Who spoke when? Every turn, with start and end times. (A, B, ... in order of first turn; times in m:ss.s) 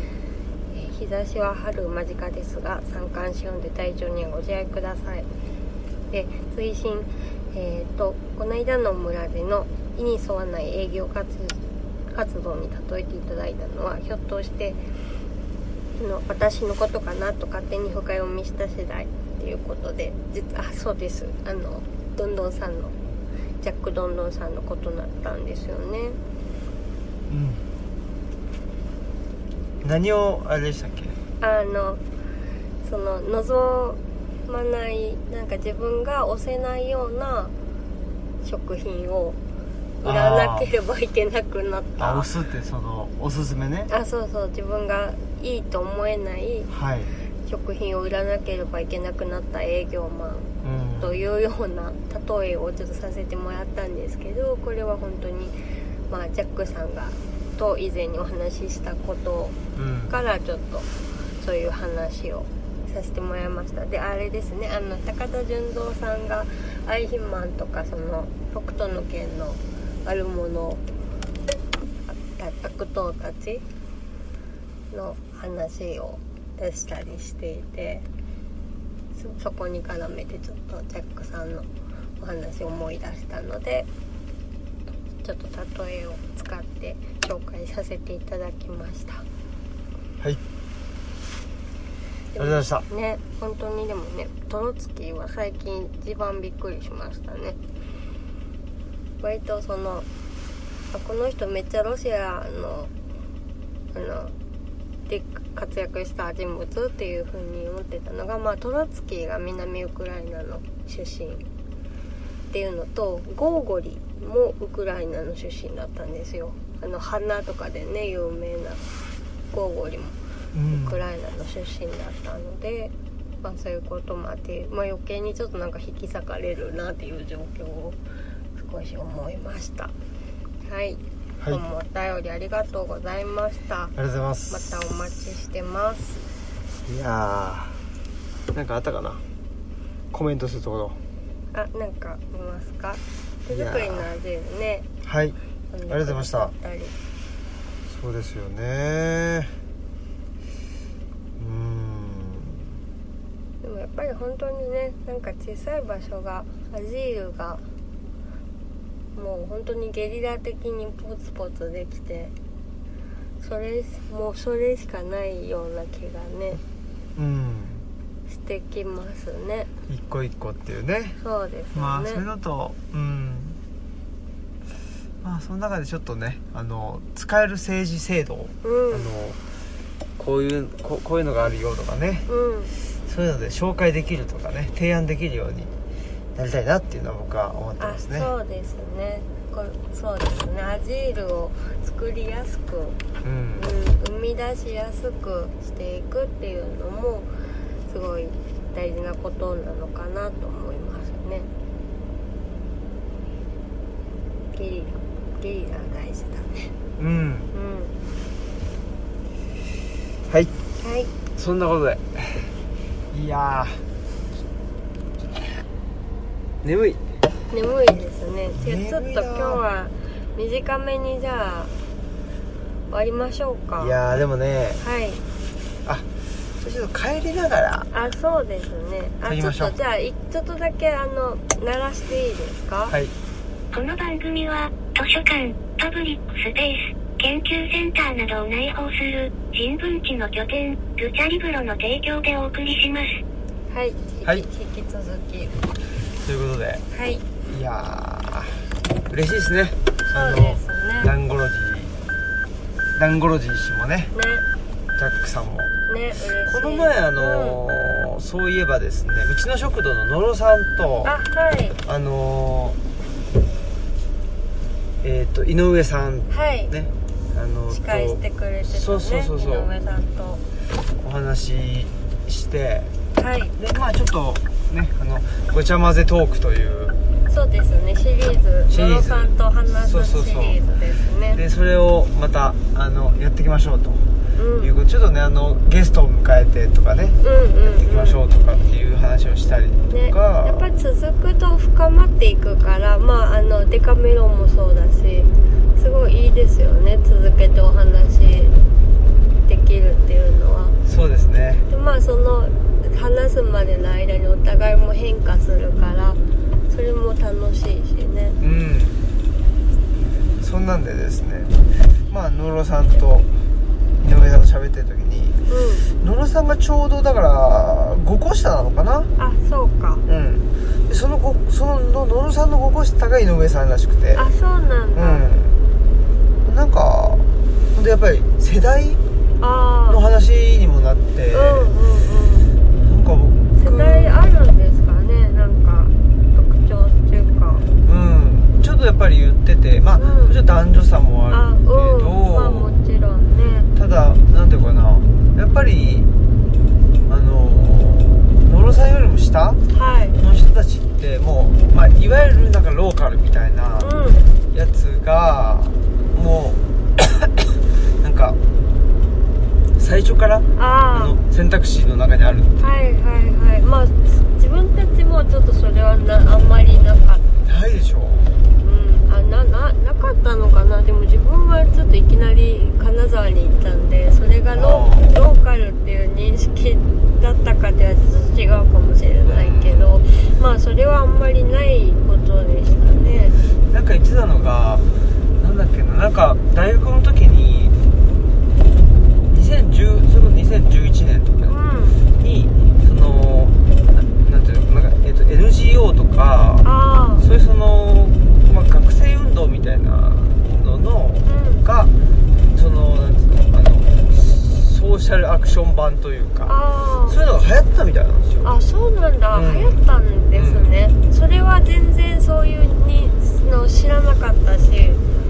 0:00.7-0:05.3 A
0:06.1-0:14.8 A
0:16.0-0:23.0 A
0:23.6-0:26.2 A
0:27.3-0:27.6 B
0:29.8-0:31.2 B
0:31.4-0:32.0 A
0:32.8-0:37.5 A
0:38.4-0:39.4 A
0:40.0-0:42.3 A
0:40.0-0:40.7 B
0:42.0-0:43.9 B
0:43.9-0:46.7 A
0:46.7-0:47.2 B
0:47.5-0:55.6 A
0:50.6-0:51.2 B
0:56.1-0:59.6 A
0:59.8-1:00.2 B
1:00.1-1:00.9 A
1:01.4-1:10.8 A
1:12.1-1:13.6 A
1:14.9-1:18.1 A
1:19.2-1:21.7 A
1:22.2-1:23.9 A
1:25.2-1:29.3 A
1:32.3-1:37.6 A
1:32.4-1:32.9 B
1:39.2-1:40.1 A
1:40.9-1:42.9 A
1:43.9-1:44.3 A
1:45.1-1:51.4 A
1:52.5-1:58.8 A
1:59.5-2:00.2 A
2:00.5-2:01.0 B
2:00.7-2:08.0 A
2:08.6-2:09.9 A
2:10.6-2:14.0 A
2:14.0-2:14.7 B
2:14.5-2:16.2 A
2:16.9-2:17.8 B
2:18.5-2:19.2 B
2:20.1-2:21.0 B
2:21.5-2:24.9 A
2:23.5-2:24.1 B
2:25.0-2:25.4 B
2:25.7-2:27.0 A
2:25.9-2:26.5 B
2:27.9-2:29.5 B
2:31.4-2:32.6 B
2:33.6-2:37.6 A
2:39.1-2:42.3 A
2:43.4-2:46.6 A
2:47.2-2:47.8 B
2:48.3-2:49.7 A
2:49.9-2:51.2 B
2:51.2-2:52.2 A
2:51.7-2:53.6 B
2:55.2-2:59.4 B
2:58.6-2:59.1 A
3:00.2-3:02.3 B
3:02.3-3:02.7 A
3:03.0-3:05.7 B
3:06.4-3:08.3 B
3:07.8-3:13.0 A
3:13.2-3:13.7 B
3:13.6-3:17.3 A
3:17.9-3:21.5 A
3:24.5-3:26.8 A
3:27.0-3:27.5 B
3:27.5-3:27.9 A
3:30.8-3:31.1 A
3:31.4-3:32.5 B
3:33.1-3:33.8 B
3:36.6-3:37.0 B
3:37.5-3:41.8 A
3:38.6-3:39.6 B
3:42.9-3:44.0 A
3:43.8-3:44.8 B
3:44.8-3:45.2 A
3:46.6-3:47.9 B
3:47.9-3:53.0 A
3:49.2-3:49.8 B
3:52.9-3:53.1 B
3:53.7-4:03.2 C
4:03.7-4:05.6 A
4:06.2-4:06.8 B
4:06.9-4:07.3 A
4:07.5-4:12.0 B
4:10.1-4:11.1 A
4:13.0-4:14.1 B
4:14.1-4:14.4 A
4:15.0-4:15.7 B
4:15.9-4:17.6 A
4:16.4-4:21.1 B
4:21.0-4:21.8 A
4:21.9-4:22.8 B
4:25.0-4:29.7 B
4:26.3-4:26.7 A
4:27.7-4:30.4 A
4:31.0-4:32.9 B
4:33.2-4:33.6 A
4:33.6-4:37.0 B
4:37.3-4:41.4 A
4:38.7-4:40.6 B
4:41.4-4:50.7 B
4:44.4-4:44.7 A
4:47.2-4:48.2 A
4:49.9-4:58.6 A
4:59.5-5:00.8 A
5:00.9-5:01.7 B
5:01.7-5:08.4 A
5:08.4-5:09.0 B
5:10.4-5:13.3 B
5:14.0-5:15.4 B
5:15.5-5:15.9 A
5:15.9-5:19.1 B
5:19.2-5:20.0 A
5:20.1-5:24.2 B
5:24.2-5:25.3 A
5:25.0-5:25.6 B
5:26.4-5:29.0 B
5:29.4-5:30.0 A
5:29.9-5:31.7 B
5:31.3-5:32.5 A
5:32.8-5:34.2 B
5:33.6-5:37.7 A
5:37.8-5:42.8 B
5:40.0-5:40.4 A
5:41.3-5:43.7 A
5:43.8-5:46.1 B
5:47.1-5:49.6 B
5:49.7-5:50.2 A
5:50.2-5:54.0 B
5:53.8-5:54.2 A
5:54.5-5:58.4 B
5:59.8-6:02.7 B
6:00.6-6:01.2 A
6:02.6-6:07.3 A
6:07.4-6:08.3 B
6:08.6-6:23.4 A
6:14.5-6:15.1 B
6:19.2-6:20.0 B
6:23.7-6:24.9 B
6:25.4-6:27.8 B
6:29.3-6:31.6 B
6:31.5-6:32.0 A
6:32.2-6:36.7 B
6:36.6-6:37.2 A
6:37.2-6:41.9 B
6:41.3-6:41.6 A
6:42.5-6:46.6 B
6:46.5-6:47.2 A
6:47.1-6:48.5 B
6:48.4-6:55.0 A
6:49.3-6:49.8 B
6:50.4-6:50.7 B